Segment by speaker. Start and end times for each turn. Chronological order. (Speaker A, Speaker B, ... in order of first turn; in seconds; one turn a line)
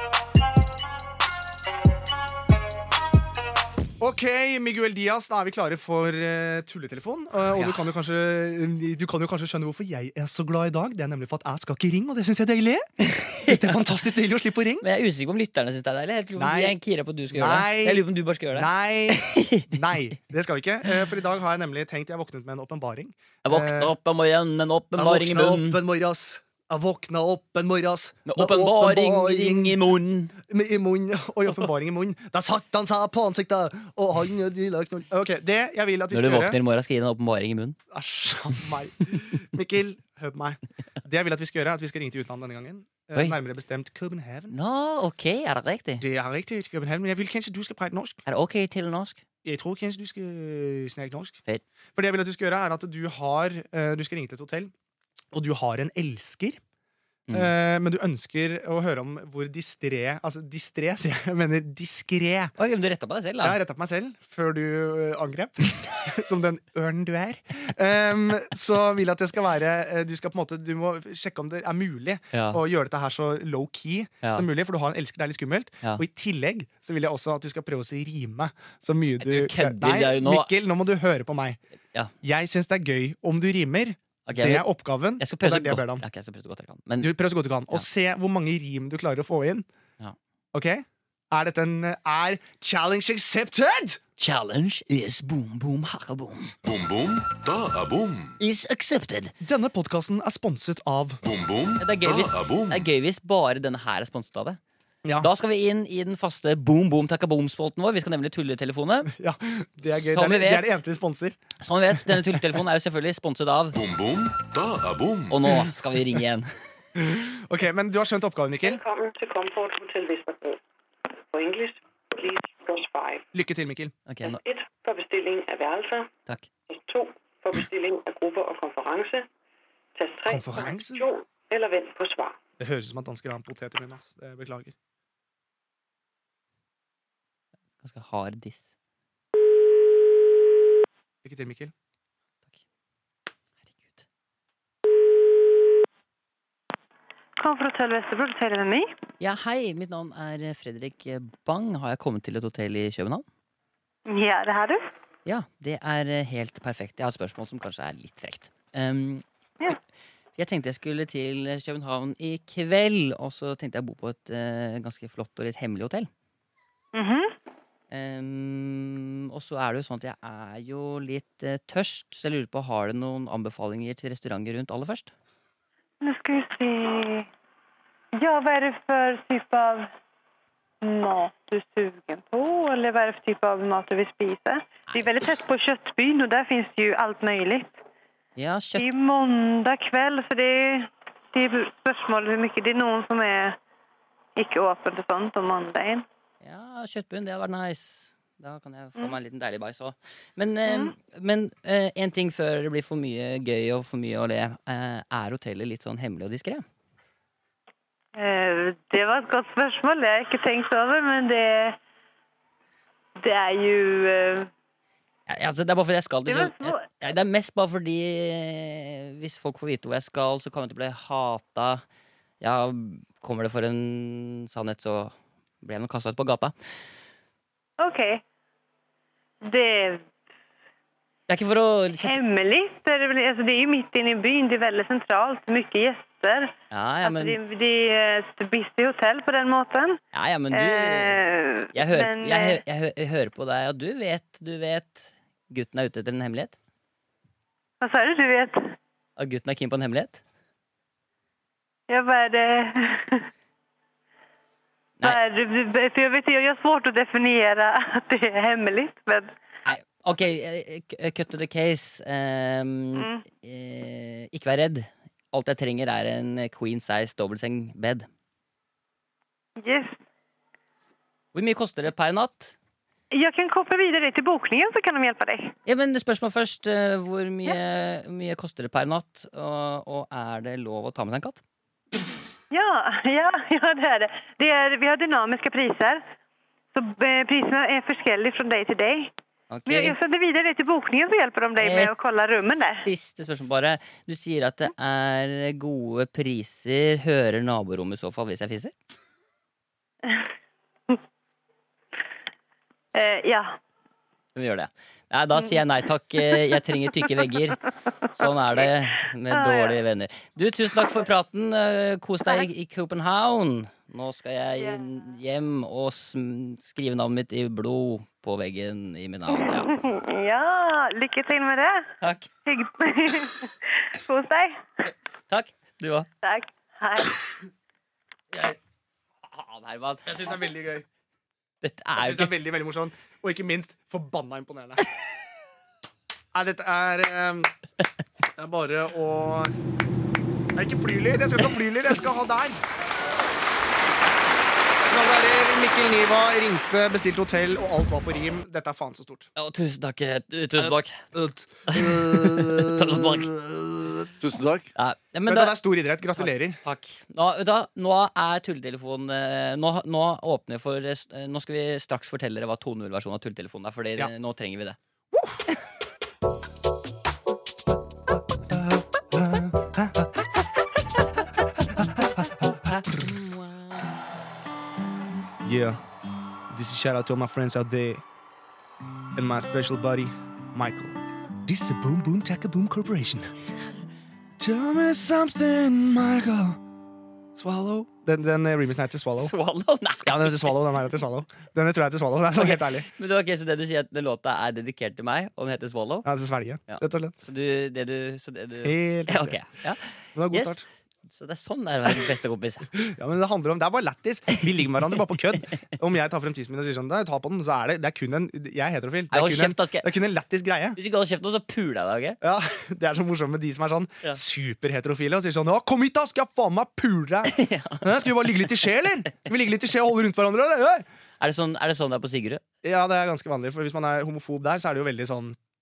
Speaker A: 4.0-12.9
Speaker B: 7.5-7.8
Speaker B: 13.0-13.9
Speaker A: 13.4-14.8
Speaker B: 14.8-19.9
Speaker A: 16.4-16.8
Speaker A: 17.3-23.9
Speaker B: 23.4-25.8
Speaker A: 24.9-29.8
Speaker B: 28.2-30.3
Speaker A: 30.4-36.6
Speaker B: 36.1-37.8
Speaker A: 37.9-44.5
Speaker B: 44.5-46.0
Speaker A: 46.0-48.2
Speaker B: 48.2-49.2
Speaker A: 49.4-51.4
Speaker A: 51.9-54.7
Speaker A: 55.3-56.6
Speaker A: 57.3-62.5
Speaker B: 62.6-63.6
Speaker A: 63.4-81.6
Speaker B: 72.3-72.6
Speaker B: 74.2-74.5
Speaker B: 79.2-80.5
Speaker A: 82.2-86.0
Speaker B: 84.3-84.7
Speaker B: 85.2-87.1
Speaker A: 87.0-89.7
Speaker A: 90.5-94.0
Speaker B: 94.2-96.5
Speaker C: 96.6-98.4
Speaker B: 98.4-99.3
Speaker A: 99.4-101.2
Speaker C: 101.2-102.9
Speaker B: 101.8-104.6
Speaker B: 105.2-109.1
Speaker A: 109.1-111.4
Speaker B: 109.9-110.8
Speaker B: 111.6-113.8
Speaker A: 112.0-112.4
Speaker C: 113.7-115.5
Speaker B: 115.3-116.5
Speaker A: 117.0-118.8
Speaker D: 118.6-123.3
Speaker A: 123.3-123.9
Speaker B: 124.1-124.4
Speaker D: 124.2-126.1
Speaker D: 126.7-129.3
Speaker D: 129.9-132.4
Speaker A: 130.3-131.1
Speaker A: 132.6-134.7
Speaker B: 137.8-138.7
Speaker A: 141.2-141.7
Speaker B: 143.6-144.1
Speaker E: 147.4-148.9
Speaker B: 149.2-153.2
Speaker E: 154.1-154.8
Speaker B: 155.2-159.2
Speaker B: 160.4-166.1
Speaker E: 166.9-167.3
Speaker B: 167.9-175.1
Speaker E: 176.0-177.3
Speaker E: 178.2-179.9
Speaker E: 180.8-187.8
Speaker B: 184.9-185.1
Speaker B: 188.4-188.9
Speaker E: 188.8-193.6
Speaker E: 194.4-196.1
Speaker B: 196.4-206.7
Speaker E: 200.7-200.9
Speaker E: 208.2-211.8
Speaker E: 213.2-214.5
Speaker B: 215.3-221.8
Speaker E: 216.2-216.9
Speaker B: 222.4-226.5
Speaker E: 227.8-228.2
Speaker E: 229.4-230.1
Speaker B: 231.3-232.2
Speaker E: 232.0-240.0
Speaker B: 236.7-237.4
Speaker B: 240.1-241.2
Speaker E: 240.5-242.6
Speaker B: 241.7-246.6
Speaker E: 247.8-248.7
Speaker B: 249.2-250.2
Speaker E: 251.9-253.3
Speaker E: 255.0-259.3
Speaker B: 259.6-268.1
Speaker E: 263.0-263.2
Speaker E: 269.6-269.9
Speaker B: 271.3-272.6
Speaker E: 273.1-275.6
Speaker B: 275.6-281.4
Speaker E: 282.5-286.0
Speaker E: 286.7-289.1
Speaker B: 289.5-290.0
Speaker E: 289.7-292.9
Speaker B: 291.6-291.9
Speaker B: 292.4-298.7
Speaker E: 302.9-303.6
Speaker B: 304.4-319.8
Speaker E: 309.3-309.8
Speaker E: 319.3-321.9
Speaker B: 322.0-322.3
Speaker E: 322.4-324.6
Speaker B: 325.3-326.1
Speaker E: 326.2-327.2
Speaker B: 329.3-330.3
Speaker A: 330.1-330.9
Speaker B: 331.6-332.4
Speaker A: 332.0-334.8
Speaker A: 336.3-337.5
Speaker A: 338.4-339.5
Speaker A: 340.6-342.6
Speaker A: 344.9-349.3
Speaker B: 349.4-351.0
Speaker A: 350.6-354.1
Speaker B: 351.7-353.4
Speaker B: 354.7-355.6
Speaker A: 355.2-356.6
Speaker B: 356.1-364.8
Speaker A: 365.1-365.4
Speaker A: 368.5-370.2
Speaker A: 371.6-373.1
Speaker B: 372.7-373.9
Speaker A: 375.4-375.8
Speaker A: 376.5-378.0
Speaker A: 379.1-383.3
Speaker A: 384.4-386.6
Speaker A: 387.4-389.3
Speaker B: 389.2-390.6
Speaker A: 390.1-392.9
Speaker B: 392.4-396.1
Speaker A: 396.1-397.1
Speaker B: 396.7-400.6
Speaker A: 398.6-399.4
Speaker A: 400.1-400.6
Speaker B: 401.1-402.7
Speaker A: 402.7-410.8
Speaker B: 409.1-409.9
Speaker B: 410.8-412.2
Speaker A: 412.2-420.9
Speaker B: 417.3-418.6
Speaker B: 421.2-422.4
Speaker A: 422.6-425.4